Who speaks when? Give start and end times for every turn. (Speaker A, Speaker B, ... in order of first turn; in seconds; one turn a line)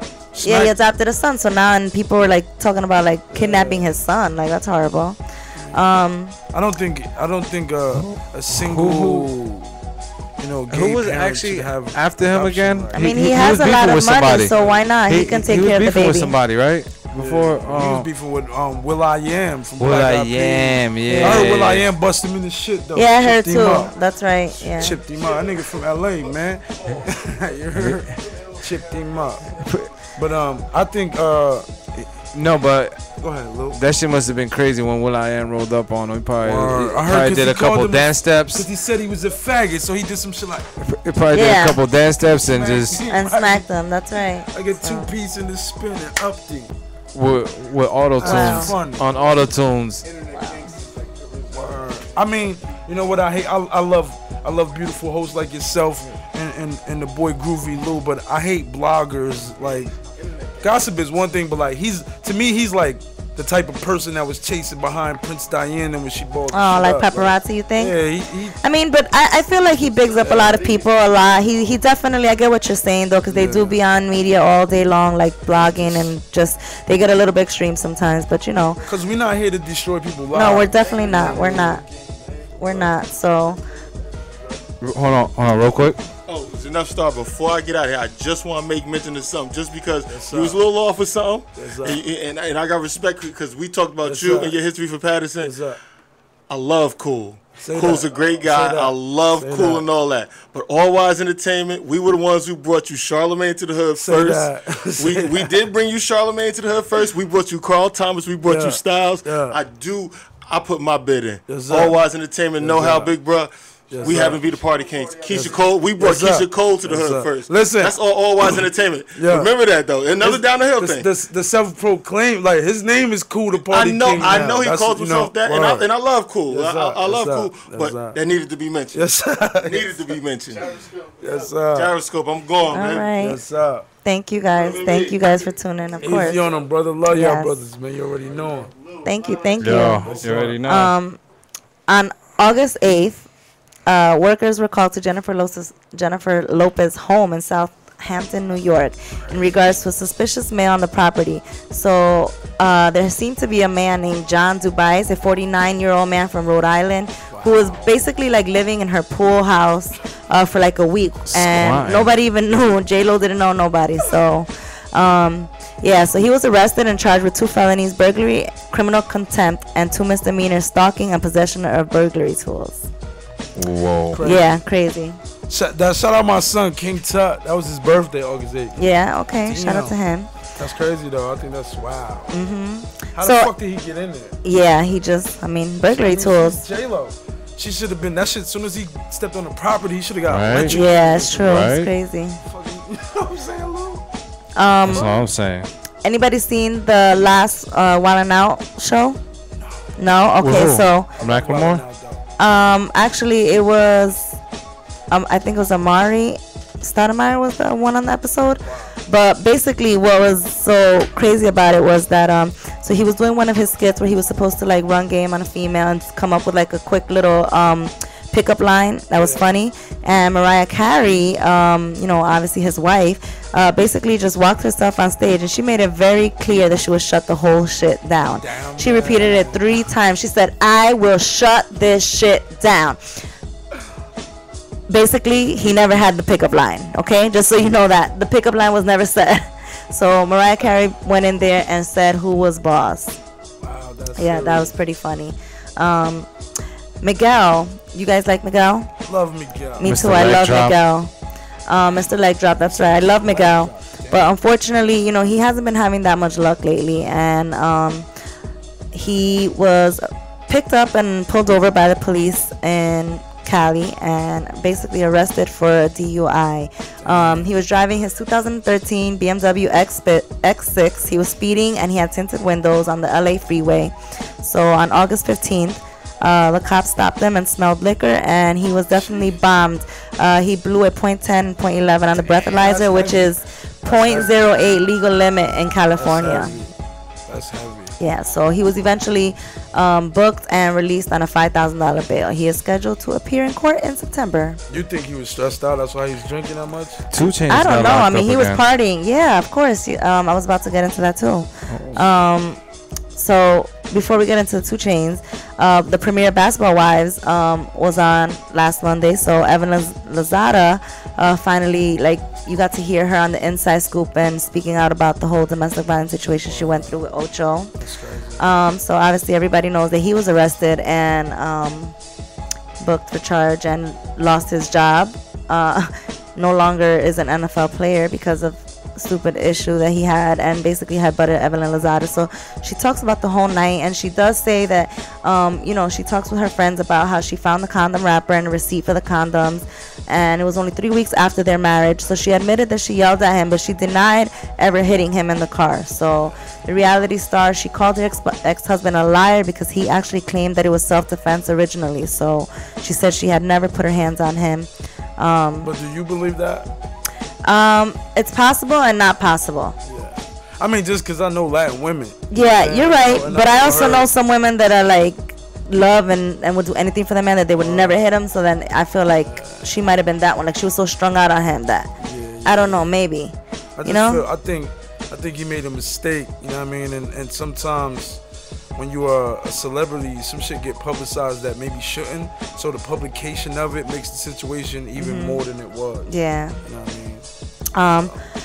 Speaker A: 0.3-0.8
Speaker B: 0.4-5.2
Speaker A: 3.3-4.0
Speaker A: 5.5-5.8
Speaker B: 5.7-6.3
Speaker A: 6.5-9.7
Speaker C: 7.9-9.3
Speaker A: 10.4-14.8
Speaker C: 10.7-14.6
Speaker B: 12.9-16.4
Speaker C: 15.1-18.1
Speaker A: 17.2-23.9
Speaker C: 19.8-21.9
Speaker B: 21.1-21.5
Speaker B: 23.0-25.0
Speaker A: 24.6-29.6
Speaker C: 27.8-28.1
Speaker C: 29.6-29.9
Speaker A: 30.1-31.7
Speaker C: 32.2-33.1
Speaker A: 33.2-33.8
Speaker C: 33.7-38.7
Speaker A: 36.4-40.7
Speaker C: 40.8-43.1
Speaker B: 41.3-41.8
Speaker A: 42.5-43.7
Speaker B: 43.1-45.1
Speaker A: 44.4-46.8
Speaker C: 47.1-50.1
Speaker A: 48.2-49.1
Speaker B: 48.2-48.8
Speaker B: 50.3-50.8
Speaker A: 51.5-60.0
Speaker A: 60.6-68.6
Speaker B: 66.5-68.0
Speaker B: 68.6-78.8
Speaker A: 70.2-70.8
Speaker A: 73.3-73.8
Speaker A: 75.5-76.1
Speaker A: 78.8-83.0
Speaker B: 80.3-81.8
Speaker B: 82.6-83.6
Speaker C: 84.8-86.0
Speaker D: 86.3-95.6
Speaker A: 90.1-90.6
Speaker A: 91.6-92.0
Speaker A: 94.0-94.6
Speaker A: 95.4-95.8
Speaker D: 96.5-121.1
Speaker A: 97.6-99.9
Speaker A: 104.0-105.5
Speaker A: 108.4-109.6
Speaker A: 111.5-112.0
Speaker A: 112.6-113.1
Speaker A: 113.9-114.5
Speaker A: 115.3-118.6
Speaker A: 119.2-119.5
Speaker A: 120.2-125.9
Speaker D: 123.6-129.1
Speaker A: 126.5-128.2
Speaker A: 128.9-130.1
Speaker D: 129.6-130.9
Speaker A: 131.2-132.0
Speaker D: 131.6-133.1
Speaker B: 132.7-133.4
Speaker A: 133.2-133.9
Speaker B: 134.0-136.5
Speaker D: 134.5-135.5
Speaker A: 136.0-138.7
Speaker D: 136.1-136.4
Speaker B: 137.1-137.6
Speaker B: 139.0-141.2
Speaker C: 139.6-140.9
Speaker A: 139.8-140.6
Speaker B: 141.9-143.3
Speaker B: 143.9-172.9
Speaker A: 157.3-157.9
Speaker C: 161.3-162.2
Speaker C: 173.6-174.2
Speaker A: 174.1-174.6
Speaker B: 174.2-175.2
Speaker A: 175.5-178.8
Speaker B: 178.8-180.3
Speaker A: 179.4-180.0
Speaker A: 180.6-182.4
Speaker B: 182.3-183.5
Speaker A: 183.2-184.4
Speaker B: 184.4-186.6
Speaker A: 185.9-191.7
Speaker C: 190.3-190.8
Speaker B: 190.7-192.4
Speaker C: 191.3-191.9
Speaker A: 192.4-194.1
Speaker B: 194.6-195.1
Speaker C: 194.8-195.7
Speaker A: 194.9-195.2
Speaker B: 196.0-199.2
Speaker B: 200.0-201.1
Speaker C: 200.4-201.8
Speaker A: 201.2-202.2
Speaker B: 202.4-204.4
Speaker B: 205.1-233.2
Speaker A: 208.6-208.9
Speaker A: 219.2-219.5
Speaker A: 228.3-229.7
Speaker B: 234.9-243.2
Speaker A: 243.6-244.8
Speaker B: 244.2-246.3
Speaker B: 247.0-248.9
Speaker A: 249.1-249.9
Speaker B: 249.8-251.1
Speaker C: 249.8-250.8
Speaker B: 251.7-258.1
Speaker A: 252.9-254.3
Speaker B: 258.9-286.6
Speaker A: 267.0-267.5
Speaker A: 282.1-284.4
Speaker A: 286.0-286.8
Speaker A: 287.3-287.9
Speaker B: 288.0-294.6
Speaker A: 294.7-297.0
Speaker C: 297.1-298.6
Speaker B: 297.5-302.6
Speaker C: 301.7-302.0
Speaker B: 303.2-317.7
Speaker A: 316.4-317.0
Speaker A: 317.8-318.5
Speaker B: 318.4-321.9
Speaker B: 322.8-355.7
Speaker A: 355.6-356.7
Speaker B: 357.4-359.8
Speaker A: 359.8-364.1
Speaker B: 362.3-371.9
Speaker A: 367.6-368.0
Speaker A: 369.2-369.7
Speaker A: 372.0-372.9
Speaker B: 372.4-374.3
Speaker A: 373.8-378.2
Speaker A: 378.8-386.1
Speaker B: 385.0-385.4
Speaker B: 386.1-386.6
Speaker A: 386.6-387.3
Speaker B: 387.8-388.1